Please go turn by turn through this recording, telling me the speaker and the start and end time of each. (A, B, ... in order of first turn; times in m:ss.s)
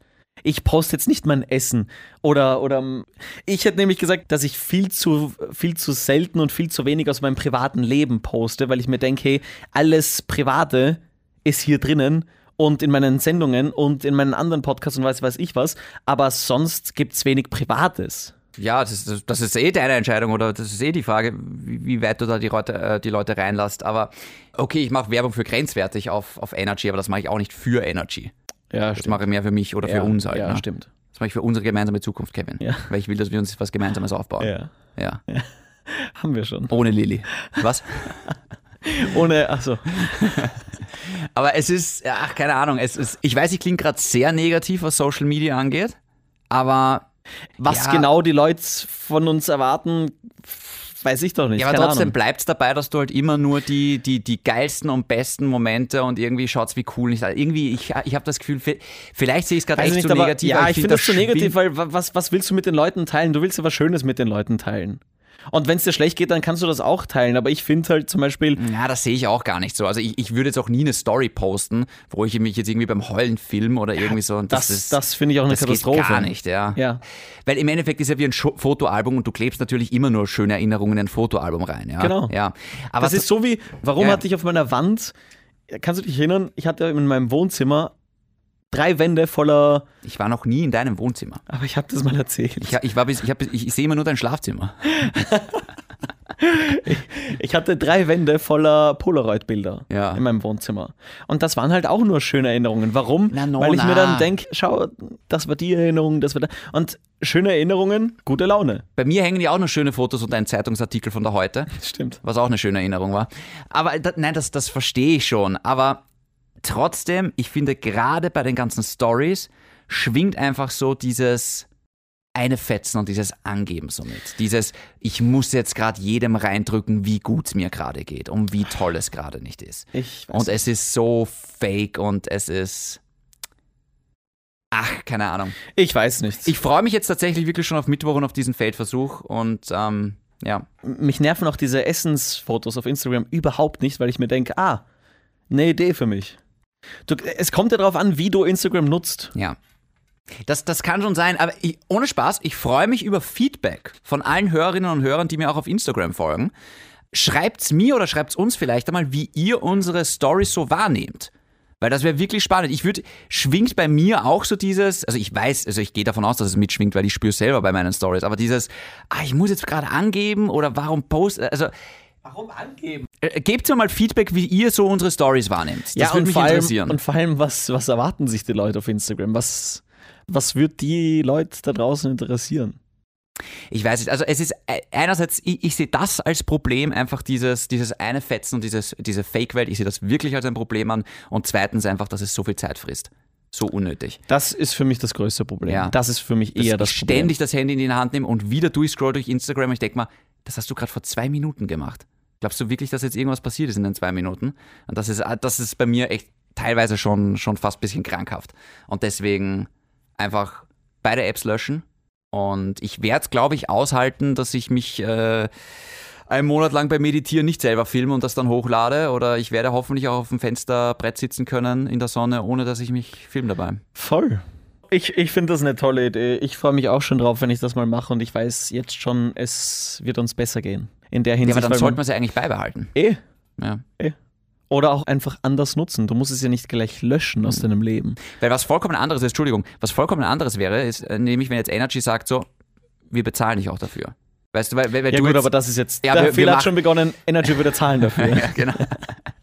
0:00.4-0:18.3 A
0:18.6-0:28.3 B
0:28.7-0:29.2 A
0:29.0-0:35.2 B
0:29.8-0:30.9 A
0:32.6-0:32.9 A
0:34.4-0:34.7 A
0:35.3-0:36.7 A
0:36.7-0:38.2 B
0:38.8-0:39.9 A
0:39.9-0:46.0 B
0:46.5-0:47.1 B
0:47.6-0:48.1 B
0:47.7-0:52.1 A
0:51.6-1:01.6 B
0:59.8-1:08.6 A
1:08.6-1:16.8 B
1:14.5-1:17.0 A
1:17.4-1:23.3 B
1:22.0-1:22.3 A
1:23.0-1:25.1 A
1:25.7-1:27.9 A
1:28.7-1:29.9 A
1:30.0-1:31.4 B
1:31.5-1:32.8 A
1:32.6-1:34.8 B
1:34.9-1:35.6 A
1:36.4-1:48.8 A
1:39.9-1:40.2 B
1:43.3-1:44.3 B
1:49.0-1:56.0 B
1:51.7-1:52.2 A
1:56.6-2:01.7 B
2:02.4-2:13.0 B
2:09.9-2:10.6 A
2:14.7-2:15.6 B
2:15.7-2:16.5 A
2:16.4-2:20.7 B
2:20.8-2:24.8 A
2:25.5-2:26.4 A
2:27.1-2:29.3 A
2:30.4-2:36.5 B
2:37.1-2:51.7 B
2:52.2-2:53.1 A
2:53.2-2:57.0 B
2:56.0-3:02.8 A
3:03.7-3:14.2 B
3:14.3-3:17.3 A
3:15.7-3:16.0 B
3:16.6-3:35.5 B
3:36.3-3:43.8 B
3:44.0-3:52.0 A
3:51.4-3:52.9 B
3:53.0-3:53.2 A
3:53.6-3:53.8 B
3:54.7-3:58.2 A
3:58.2-4:02.5 B
4:03.1-4:06.8 B
4:05.1-4:09.0 A
4:08.0-4:09.1 B